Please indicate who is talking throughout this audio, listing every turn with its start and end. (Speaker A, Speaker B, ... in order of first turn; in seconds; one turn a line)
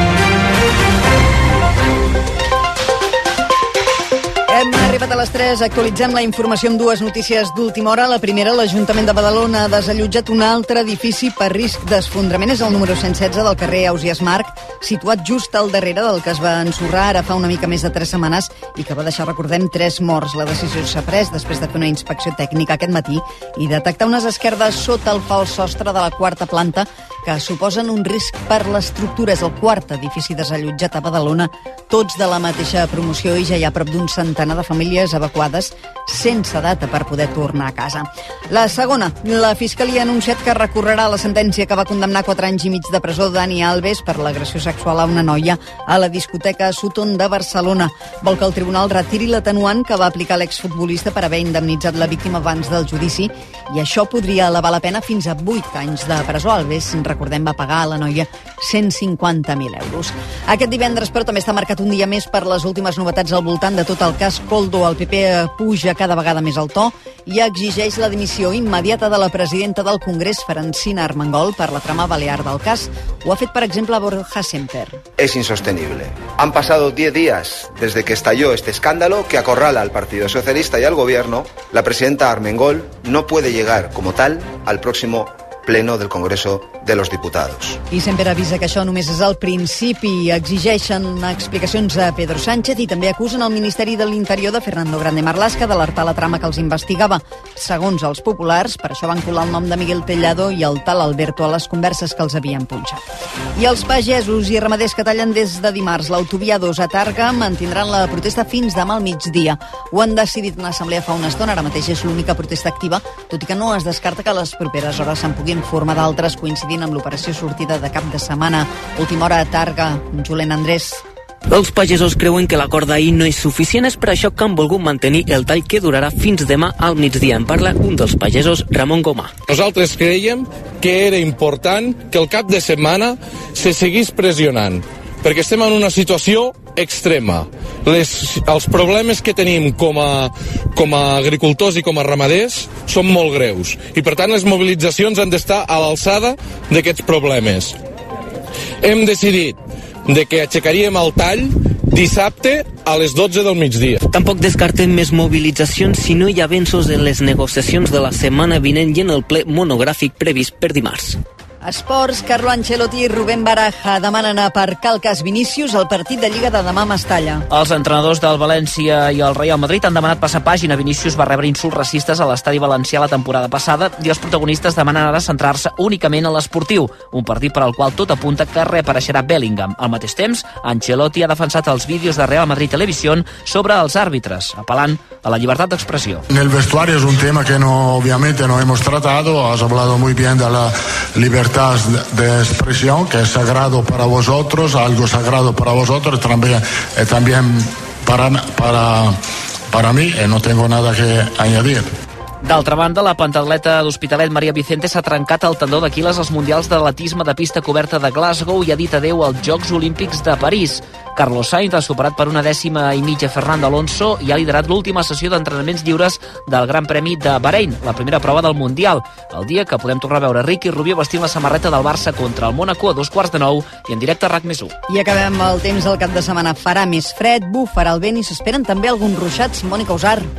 Speaker A: 4.5-75.0
Speaker B: 75.2-87.8
Speaker A: 87.9-103.0
Speaker A: 103.5-121.0
Speaker C: 121.5-129.3
Speaker D: 129.4-147.8
Speaker D: 148.8-154.0
Speaker C: 154.1-161.2
Speaker A: 161.6-167.4
Speaker E: 167.5-186.2
Speaker F: 186.3-199.2
Speaker F: 199.7-201.9
Speaker E: 202.4-224.7
Speaker A: 224.9-230.3